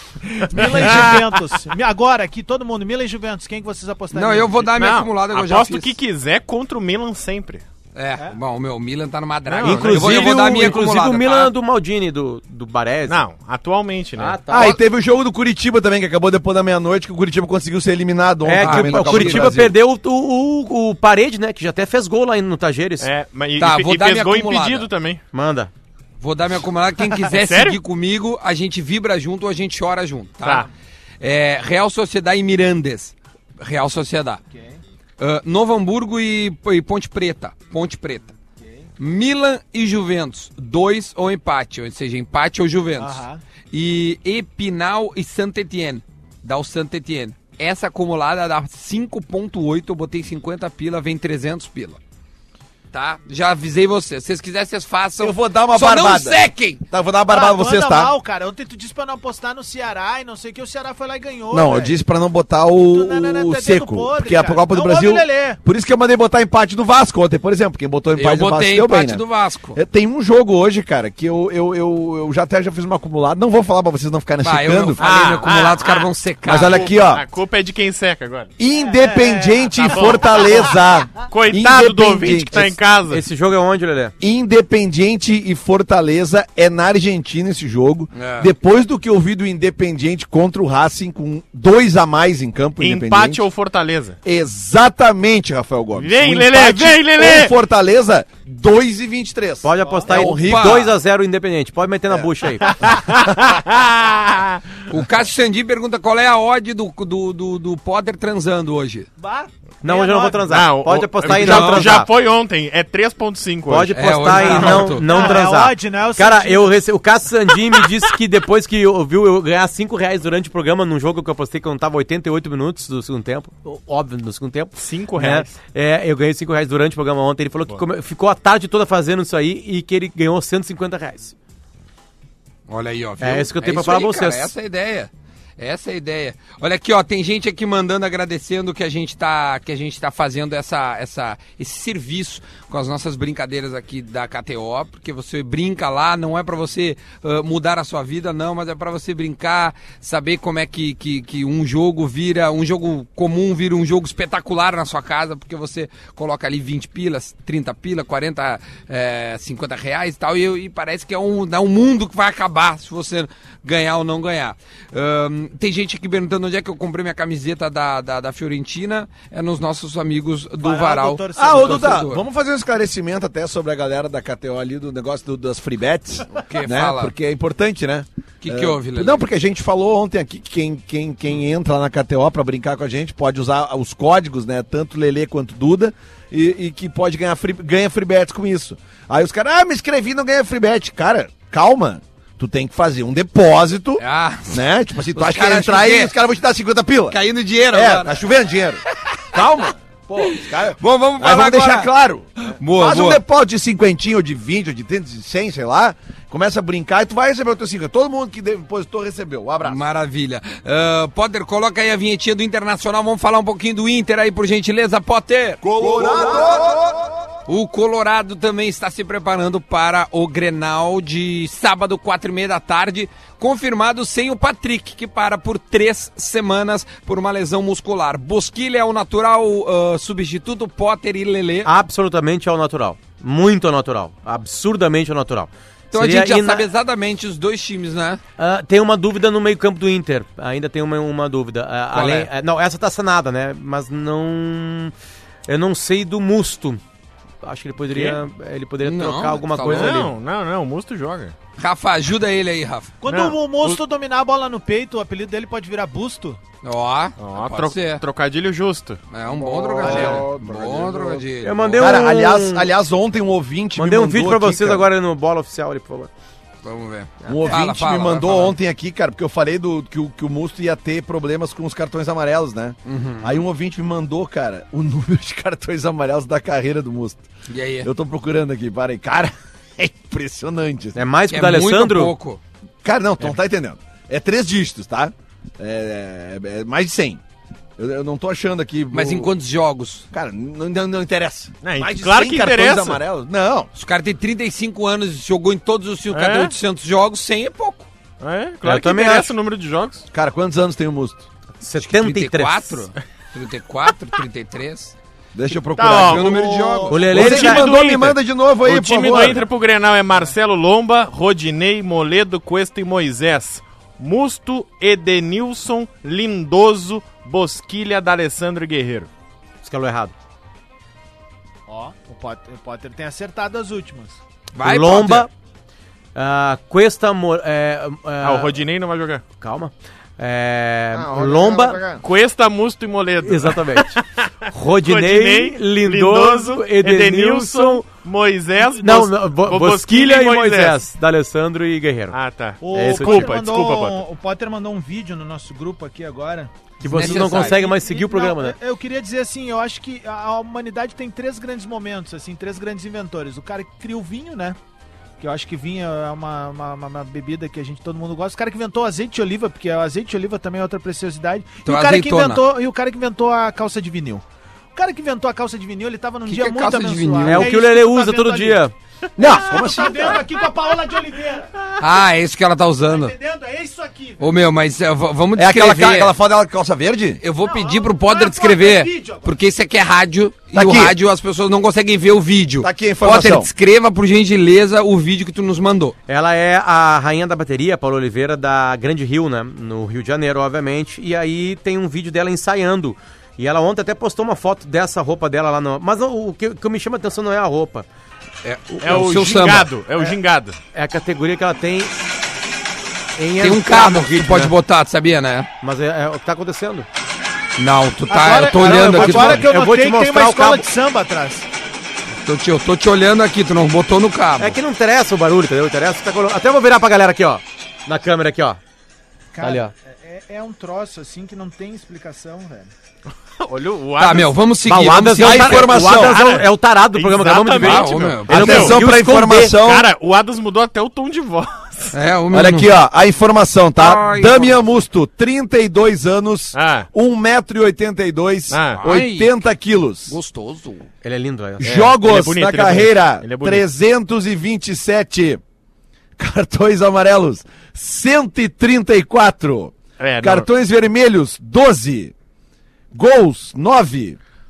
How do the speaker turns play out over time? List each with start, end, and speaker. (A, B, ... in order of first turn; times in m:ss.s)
0:00.2-0:04.7 A
0:00.6-0:01.4 B
0:04.1-0:06.0 C
0:04.8-0:07.6 B
0:08.0-0:11.5 C
0:09.5-0:10.3 B
0:09.6-0:13.2 D
0:13.1-0:14.4 B
0:14.2-0:14.8 D
0:14.5-0:19.8 E
0:18.4-0:23.1 D
0:18.6-0:19.6 C
0:23.0-0:25.2 B
0:23.6-0:24.9 C
0:25.3-0:25.7 D
0:26.2-0:30.7 C
0:27.2-0:27.8 B
0:30.4-0:30.7 B
0:31.2-0:34.4 C
0:34.5-0:34.8 A
0:35.2-0:38.3 C
0:39.0-0:52.0 C
0:43.0-0:43.4 A
0:52.9-0:56.8 C
0:55.2-0:58.1 E
0:57.3-1:02.0 A
1:01.5-1:15.0 E
1:02.9-1:05.6 A
1:08.2-1:09.8 C
1:14.4-1:16.9 C
1:15.0-1:18.5 B
1:16.5-1:17.2 E
1:18.6-1:22.8 E
1:18.8-1:20.7 A
1:19.8-1:20.6 B
1:21.3-1:23.2 B
1:23.1-1:24.1 D
1:24.2-1:33.4 E
1:28.1-1:28.5 C
1:32.8-1:34.2 B
1:34.2-1:40.9 E
1:36.0-1:37.5 B
1:39.6-1:43.0 D
1:39.8-1:40.1 A
1:40.1-1:40.9 C
1:42.7-1:44.6 B
1:44.9-1:49.1 C
1:49.2-1:50.6 A
1:49.8-1:52.1 D
1:50.5-1:55.0 B
1:51.3-1:52.0 C
1:53.7-2:11.3 D
1:53.9-1:55.1 C
1:54.8-1:56.8 A
2:04.8-2:05.6 B
2:12.7-2:52.2 C
2:13.2-2:14.5 D
2:50.6-2:52.0 A
2:51.4-3:17.2 E
2:56.3-2:57.1 C
2:58.4-2:59.2 C
3:14.0-3:16.1 C
3:17.1-3:18.2 C
3:17.7-3:18.8 E
3:19.3-3:29.8 E
3:20.2-3:21.9 C
3:22.4-3:23.2 C
3:29.6-3:35.6 C
3:35.7-3:36.8 E
3:37.5-3:51.7 C
3:51.6-3:56.7 D
3:55.9-3:58.2 C
3:58.4-4:04.9 D
4:01.9-4:02.3 C
4:05.5-4:06.8 D
4:07.4-4:10.1 D
4:07.9-4:08.2 B
4:08.8-4:10.1 C
4:09.7-4:11.4 B
4:11.6-4:12.9 C
4:13.0-4:16.4 A
4:13.1-4:13.8 B
4:16.6-4:18.0 C
4:17.2-4:19.0 B
4:19.1-4:21.9 C
4:19.4-4:21.2 E
4:19.8-4:20.3 B
4:21.4-4:22.7 D
4:21.8-4:24.9 E
4:23.8-4:26.1 D
4:26.6-4:28.6 C
4:27.3-4:37.2 E
4:32.9-4:33.4 C
4:37.5-4:37.9 C
4:37.8-4:41.0 E
4:41.0-4:42.1 D
4:41.3-4:42.4 C
4:42.8-4:47.2 E
4:47.8-4:49.3 E
4:48.9-4:50.0 C
4:50.1-4:53.7 E
4:51.6-4:53.0 B
4:53.7-4:57.9 C
4:56.1-4:56.5 B
4:58.2-5:00.0 B
4:58.6-4:59.3 D
5:00.1-5:01.2 E
5:01.6-5:02.8 D
5:01.8-5:05.0 C
5:05.3-5:09.4 E
5:05.8-5:06.3 B
5:05.8-5:07.1 C
5:06.3-5:07.0 A
5:06.9-5:07.8 D
5:07.1-5:19.1 B
5:19.6-5:20.1 D
5:21.7-5:24.2 A
5:24.6-5:25.3 C
5:24.6-5:25.3 D
5:26.2-5:28.6 D
5:28.2-5:29.2 B
5:29.4-5:31.8 D
5:30.9-5:32.0 E
5:32.0-5:40.8 B
5:33.2-5:34.0 D
5:34.5-5:37.8 D
5:38.7-5:42.2 D
5:42.1-5:44.0 B
5:42.6-5:54.6 A
5:42.7-5:43.4 D
5:46.8-5:48.6 D
5:46.8-5:47.6 C
5:55.2-6:04.2 A
6:01.6-6:02.4 C
6:04.8-6:08.6 A
6:06.3-6:07.5 C
6:07.2-6:08.7 D
6:09.2-6:10.2 E
6:09.2-6:11.7 A
6:11.8-6:13.1 C
6:12.9-6:14.3 A
6:14.2-6:16.2 C
6:15.4-6:17.2 E
6:17.2-6:26.0 C
6:17.4-6:19.4 A
6:20.5-6:21.0 E
6:22.6-6:23.5 E
6:26.1-6:37.9 D
6:38.4-6:39.7 C
6:38.8-6:40.6 B
6:40.7-6:42.0 D
6:43.2-6:44.5 D
6:43.4-6:45.5 C
6:45.6-6:46.9 D
6:47.6-6:49.4 C
6:48.1-6:51.5 A
6:48.4-6:50.7 D
6:52.2-6:54.6 C
6:54.4-6:58.6 D
6:59.3-7:02.7 A
6:59.4-6:59.7 D
7:03.4-7:04.4 B
7:04.0-7:05.8 C
7:04.7-7:09.6 D
7:05.1-7:06.2 E
7:05.9-7:08.8 B
7:07.6-7:08.7 C
7:08.3-7:09.9 E
7:09.5-7:11.9 B
7:11.9-7:12.7 C
7:12.3-7:20.2 E
7:13.8-7:14.6 C
7:16.5-7:16.9 B
7:18.5-7:18.8 B
7:18.8-7:19.4 C
7:20.1-7:20.9 C
7:21.0-7:21.7 D
7:21.6-7:25.4 E
7:21.6-7:23.7 B
7:26.2-7:32.1 E
7:30.0-7:30.5 B
7:32.9-7:34.2 E